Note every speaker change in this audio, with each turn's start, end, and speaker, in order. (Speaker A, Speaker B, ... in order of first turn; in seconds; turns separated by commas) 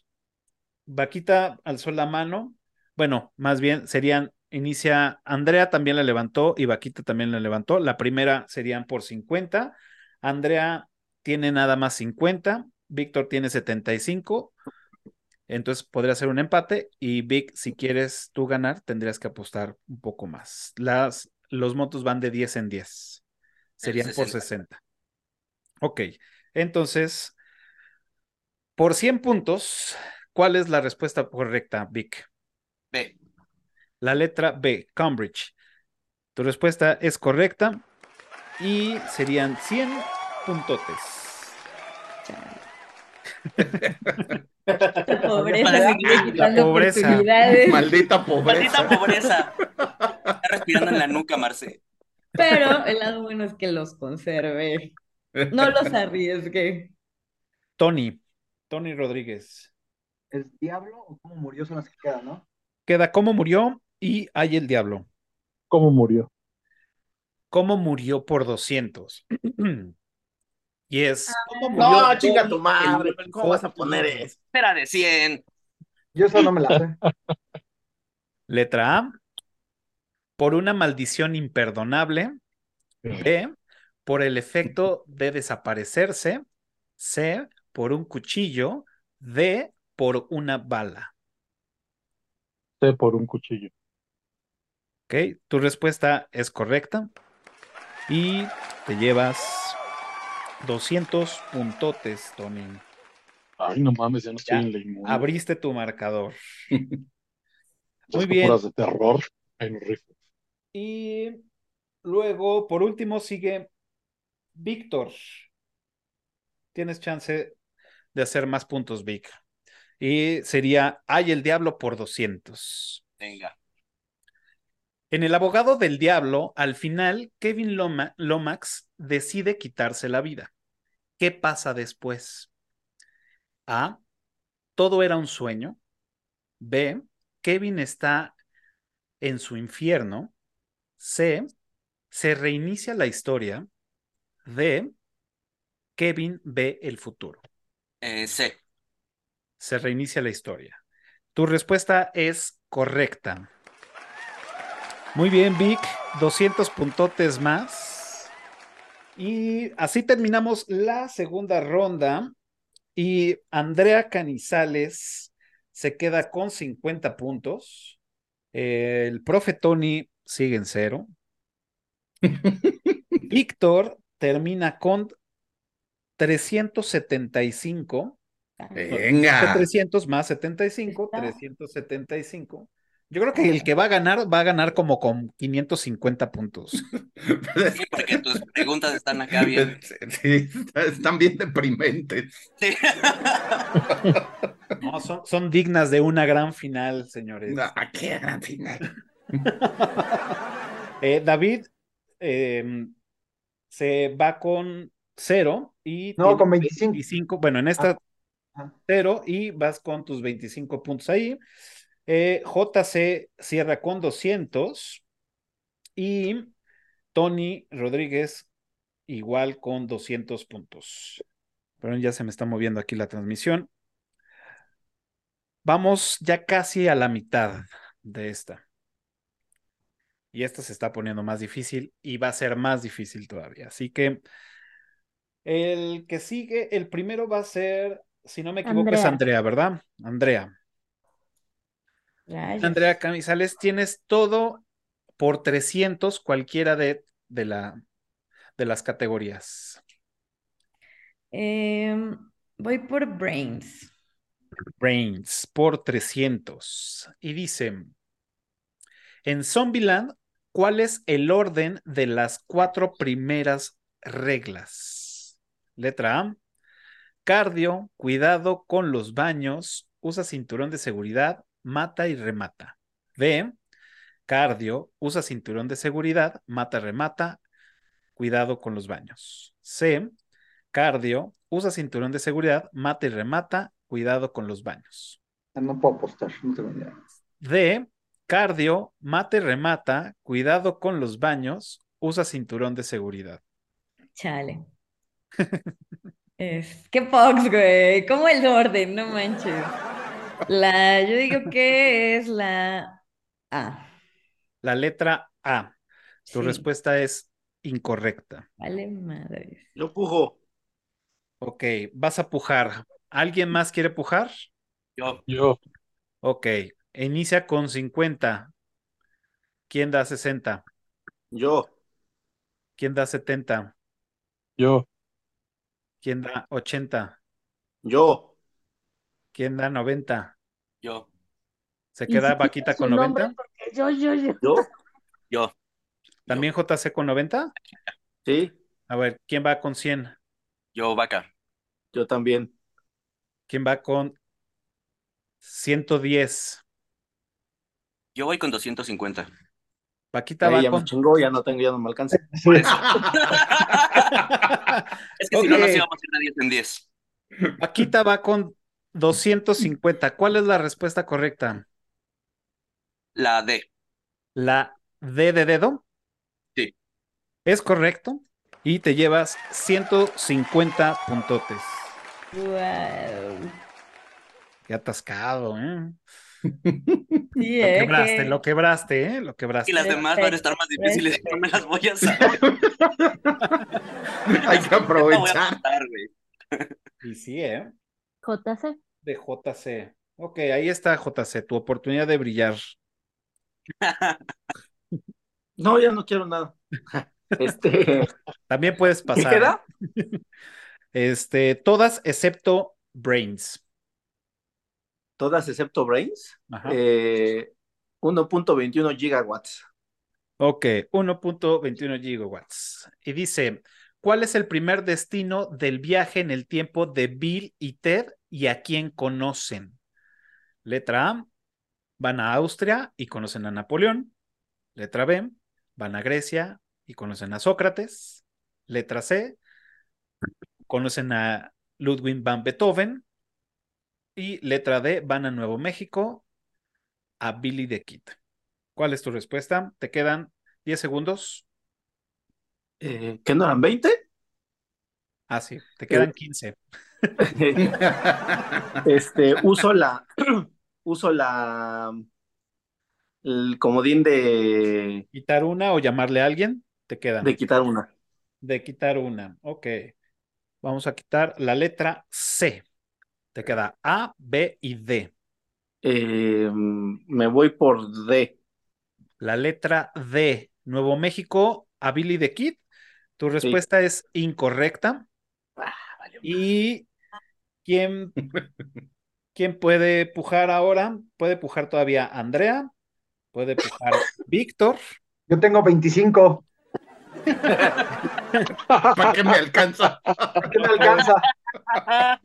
Speaker A: 0.9-14.5, Speaker A: 15.5-23.2, Speaker B: 23.8-24.4, Speaker A: 23.8-24.8, Speaker A: 25.8-27.4, Speaker A: 28.8-32.3, Speaker A: 34.0-35.5, Speaker A: 36.4-37.8, Speaker A: 38.6-41.6, Speaker C: 42.2-42.7, Speaker D: 43.6-44.3, Speaker A: 45.0-47.3, Speaker C: 45.1-47.9, Speaker B: 45.6-46.6, Speaker D: 47.5-50.2, Speaker B: 48.5-49.5, Speaker B: 50.4-51.8, Speaker D: 50.8-51.1, Speaker C: 52.4-55.0, Speaker D: 55.4-55.9, Speaker C: 55.5-56.9, Speaker A: 57.8-59.7, Speaker E: 60.3-62.5, Speaker A: 62.9-65.1, Speaker F: 65.7-66.3, Speaker A: 67.5-69.9, Speaker A: 70.9-74.3, Speaker C: 71.3-72.0, Speaker G: 71.7-74.4, Speaker B: 74.5-75.4, Speaker E: 76.2-77.0, Speaker A: 78.5-79.2, Speaker A: 80.4-82.4, Speaker A: 83.2-83.5, Speaker A: 84.0-86.4, Speaker A: 87.0-91.1, Speaker F: 92.8-93.7, Speaker A: 95.1-97.1, Speaker A: 98.1-99.8, Speaker A: 100.6-102.8, Speaker F: 103.6-105.3, Speaker A: 104.5-106.4, Speaker D: 106.7-107.0, Speaker F: 108.1-110.1, Speaker A: 108.1-108.6, Speaker A: 110.7-111.4, Speaker A: 112.0-113.7, Speaker A: 114.6-115.2, Speaker A: 116.7-117.6, Speaker A: 118.1-119.4, Speaker A: 120.0-123.0, Speaker B: 123.2-123.6, Speaker A: 125.1-130.5, Speaker A: 131.2-132.5, Speaker A: 133.7-134.0, Speaker A: 134.8-135.8, Speaker A: 136.6-138.3, Speaker A: 139.2-140.3, Speaker A: 141.0-141.5, Speaker A: 142.1-143.7, Speaker A: 144.4-144.9, Speaker A: 146.0-147.4, Speaker B: 148.0-148.6, Speaker A: 149.6-150.8, Speaker A: 151.3-153.5, Speaker A: 155.1-158.3, Speaker A: 159.2-162.3, Speaker A: 162.9-168.0, Speaker A: 168.5-171.1, Speaker D: 172.2-173.0, Speaker A: 173.3-175.1, Speaker A: 176.2-178.2, Speaker D: 178.8-179.7, Speaker A: 178.9-186.8, Speaker C: 180.9-181.4, Speaker D: 187.2-188.6, Speaker B: 187.7-189.8, Speaker D: 189.3-192.3, Speaker B: 192.6-193.7, Speaker A: 194.8-197.7, Speaker D: 197.5-198.8, Speaker A: 199.6-200.2, Speaker A: 201.0-201.7, Speaker A: 202.2-202.9, Speaker A: 203.7-208.0, Speaker E: 206.2-207.0, Speaker A: 208.9-211.4, Speaker A: 212.1-215.0, Speaker A: 216.0-216.5, Speaker A: 217.1-218.5, Speaker A: 219.1-221.2, Speaker A: 221.8-223.7, Speaker A: 225.6-228.6, Speaker A: 230.3-234.2, Speaker A: 235.4-240.5, Speaker H: 238.7-239.2, Speaker C: 242.3-242.9, Speaker A: 242.6-244.6, Speaker A: 245.2-247.8, Speaker A: 248.6-249.8, Speaker C: 251.3-253.9, Speaker A: 254.8-257.9, Speaker A: 259.2-266.4, Speaker A: 267.2-273.5, Speaker A: 274.3-277.4, Speaker A: 278.2-280.1, Speaker A: 280.7-285.2, Speaker E: 285.6-287.0, Speaker A: 287.4-293.4, Speaker C: 294.2-294.7, Speaker C: 296.4-299.8, Speaker C: 300.5-303.9, Speaker A: 304.6-305.7, Speaker C: 306.3-306.7, Speaker A: 306.3-308.5, Speaker C: 308.6-309.7, Speaker G: 309.8-310.4, Speaker A: 311.4-314.3, Speaker F: 315.3-315.6, Speaker A: 316.2-318.5, Speaker A: 319.7-320.6, Speaker G: 321.3-321.7, Speaker A: 322.8-323.7, Speaker F: 324.6-324.9, Speaker A: 326.0-327.2, Speaker G: 327.8-328.3, Speaker A: 329.3-330.4, Speaker B: 330.8-331.1, Speaker A: 331.9-333.3, Speaker H: 332.1-334.6, Speaker A: 336.3-337.5, Speaker G: 338.2-338.6, Speaker A: 338.9-340.2, Speaker B: 340.8-341.3, Speaker G: 341.9-342.5, Speaker A: 343.5-344.2, Speaker A: 345.4-346.6, Speaker B: 348.1-349.3, Speaker A: 350.1-350.9, Speaker G: 350.4-352.6, Speaker E: 352.1-353.0, Speaker B: 352.5-354.2, Speaker D: 352.7-353.1, Speaker A: 354.4-355.9, Speaker B: 355.2-356.9, Speaker A: 357.6-361.6, Speaker B: 363.1-363.7, Speaker A: 364.4-365.8, Speaker A: 367.4-372.0, Speaker C: 372.3-373.6, Speaker A: 374.7-376.0, Speaker D: 376.4-377.2, Speaker C: 377.4-378.4, Speaker A: 377.6-380.0, Speaker B: 379.7-382.4, Speaker C: 379.8-381.4, Speaker D: 382.1-383.6, Speaker D: 384.3-385.6, Speaker B: 384.4-386.7, Speaker A: 387.0-387.7, Speaker H: 388.2-388.8, Speaker A: 389.0-392.6, Speaker B: 393.8-394.2, Speaker G: 395.6-398.1, Speaker A: 398.5-400.2, Speaker G: 399.1-399.6, Speaker A: 400.9-403.6, Speaker G: 405.2-407.5, Speaker A: 406.5-406.8, Speaker G: 408.0-409.6, Speaker A: 410.4-419.8, Speaker A: 420.6-421.3, Speaker A: 422.0-424.1, Speaker A: 424.8-429.4, Speaker A: 430.7-433.0, Speaker A: 434.2-436.2, Speaker A: 437.2-438.2, Speaker A: 438.8-441.5, Speaker G: 442.8-444.0, Speaker A: 445.3-446.6, Speaker G: 447.2-447.7, Speaker D: 447.6-448.6, Speaker G: 448.8-452.0, Speaker G: 453.2-455.0, Speaker A: 455.1-457.4, Speaker G: 457.2-457.9, Speaker A: 458.4-459.9, Speaker A: 460.6-462.6, Speaker A: 463.3-465.1, Speaker G: 465.8-468.4, Speaker A: 469.2-472.6, Speaker A: 473.2-475.1, Speaker G: 475.6-476.2, Speaker A: 476.2-476.9, Speaker A: 477.6-478.2, Speaker A: 479.4-482.7, Speaker A: 483.3-484.8, Speaker E: 485.3-486.4, Speaker F: 488.7-489.1, Speaker D: 488.9-490.7, Speaker E: 490.5-491.2